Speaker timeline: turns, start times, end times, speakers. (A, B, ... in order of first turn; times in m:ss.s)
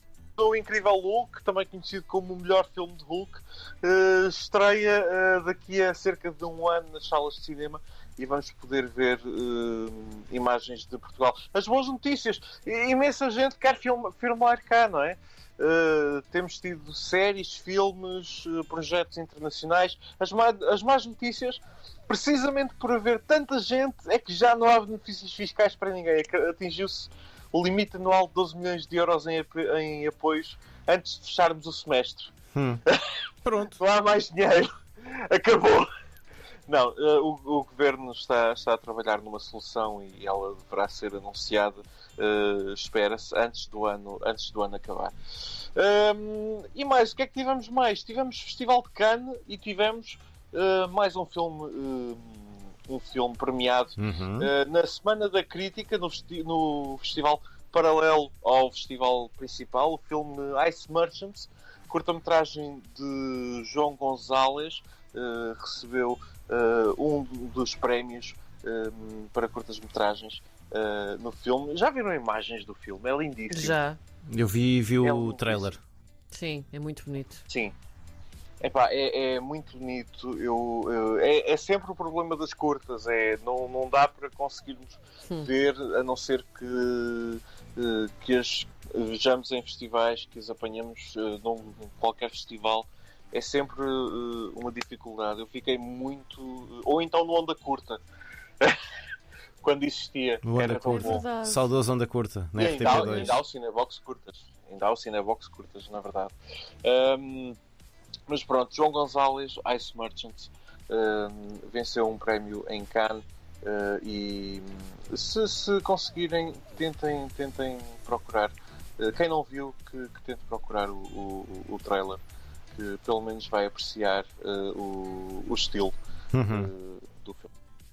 0:00.4-0:32.3 A
0:32.5-0:32.8 B
0:32.9-0:33.1 A
0:33.4-0:33.8 B
0:33.7-0:35.9 A
0:36.7-1:13.8 A
0:54.0-0:54.5 B
1:13.5-1:14.0 C
1:14.3-1:15.8 B
1:15.0-1:15.8 A
1:16.3-1:17.4 C
1:17.5-1:17.8 A
1:18.6-1:38.0 A
1:39.6-1:41.2 A
1:40.4-1:43.4 B
1:40.9-1:41.7 C
1:42.6-1:47.6 A
1:43.0-1:43.3 C
1:48.3-2:02.2 A
2:02.8-2:05.9 A
2:06.3-2:06.7 B
2:06.5-2:07.5 A